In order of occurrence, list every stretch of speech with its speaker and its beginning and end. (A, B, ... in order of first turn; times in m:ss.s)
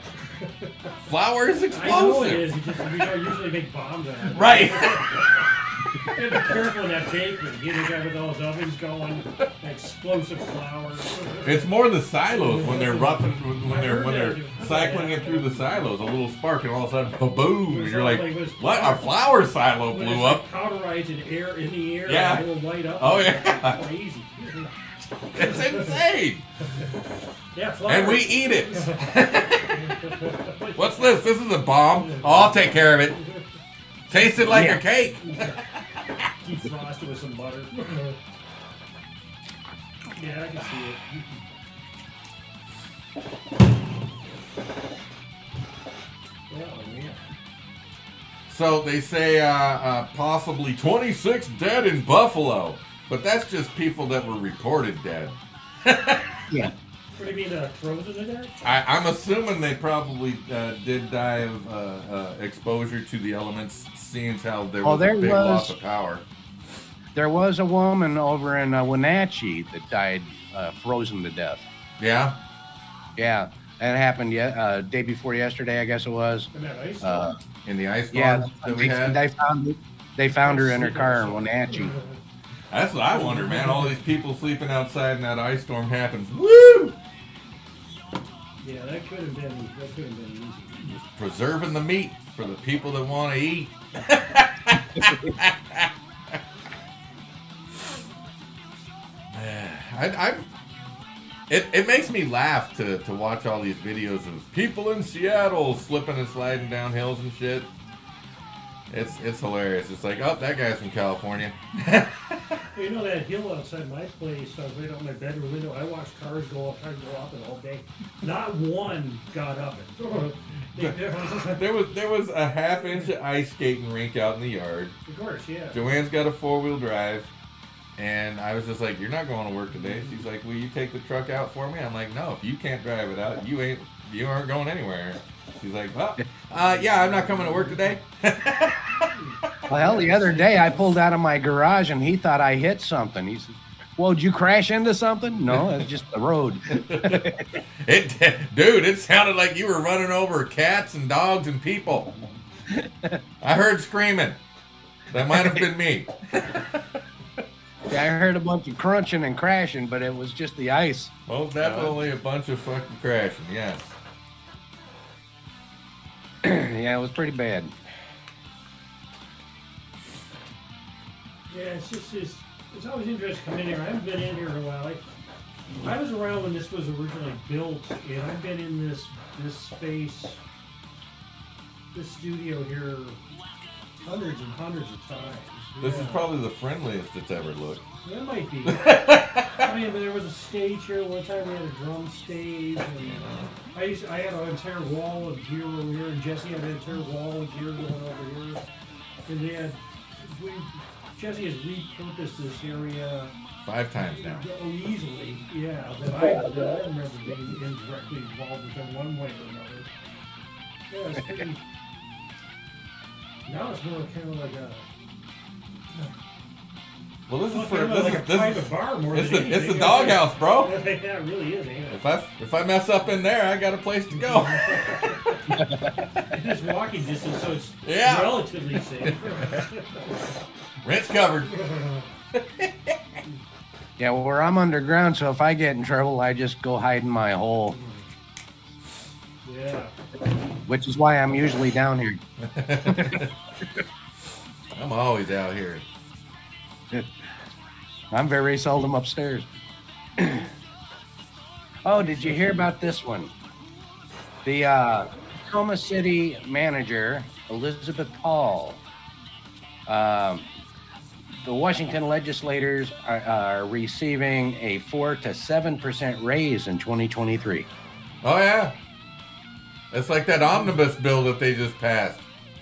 0:00.3-0:00.9 A
0:01.0-0:02.5 B
0:01.7-0:05.1 A
0:04.3-0:05.2 B
0:06.1-0:11.7 A
0:11.4-0:20.4 B
0:12.3-0:15.9 A
0:17.7-0:19.1 A
0:19.9-0:24.7 A
0:22.0-0:22.5 B
0:23.0-0:23.8 B
0:25.3-0:26.4 B
0:25.3-0:26.0 A
0:27.5-0:31.2 A
0:27.8-0:29.9 B
0:30.8-0:33.2 B
0:32.0-0:33.2 A
0:34.1-0:35.6 B
0:34.4-0:34.8 C
0:36.4-0:38.2 A
0:40.1-0:41.4 A
0:46.5-0:47.2 A
0:48.5-0:56.3 B
0:57.2-0:58.6 A
0:58.6-1:06.2 B
1:04.8-1:05.7 C
1:07.1-1:11.6 C
1:12.0-1:12.3 B
1:13.2-1:16.5 C
1:16.5-1:17.4 A
1:17.0-1:17.4 C
1:17.6-1:19.2 B
1:18.1-1:21.9 C
1:20.4-1:22.1 A
1:22.7-1:27.0 B
1:23.1-1:24.0 A
1:28.6-1:30.9 A
1:30.8-1:35.9 B
1:39.3-1:40.5 B
1:41.5-1:47.7 B
1:48.9-1:52.6 B
1:52.7-2:01.7 A
2:00.8-2:04.9 B
2:05.0-2:05.8 A
2:05.7-2:07.3 B
2:08.0-2:19.6 B
2:09.8-2:10.2 A
2:19.3-2:20.8 A
2:19.7-2:27.4 C
2:26.7-2:32.1 B
2:32.7-2:33.2 C
2:33.4-2:34.4 B
2:35.1-2:36.1 B
2:35.3-2:35.6 C
2:37.9-2:42.0 C
2:41.3-2:43.9 B
2:46.4-2:47.7 C
2:51.5-2:55.0 A
2:55.8-3:00.4 A
3:01.9-3:03.2 A
3:04.0-3:06.3 A
3:05.8-3:07.8 B
3:08.0-3:13.2 A
3:08.6-3:09.7 B
3:13.0-3:13.5 B
3:13.7-3:18.6 A
3:19.3-3:23.3 A
3:23.6-3:24.4 B
3:24.0-3:29.9 A
3:30.9-3:31.6 A
3:33.4-3:34.8 A
3:37.3-3:40.7 B
3:37.5-3:42.0 A
3:41.9-3:45.0 B
3:44.2-3:45.4 A
3:45.6-3:45.9 C
3:46.3-3:50.1 A
3:47.8-3:49.6 B
3:50.8-3:51.7 B
3:51.5-3:52.0 A
3:52.3-3:53.0 B
3:54.0-3:57.8 C
3:57.8-3:58.0 A
3:59.4-3:59.9 A
4:00.6-4:02.2 C
4:02.4-4:03.3 B
4:02.8-4:03.2 C
4:04.7-4:05.8 B
4:08.1-4:09.5 C
4:10.2-4:10.5 C
4:11.8-4:13.3 C
4:12.0-4:12.6 A
4:14.4-4:18.8 C
4:19.9-4:20.4 C
4:21.4-4:27.7 C
4:28.2-4:28.7 B
4:29.9-4:32.2 B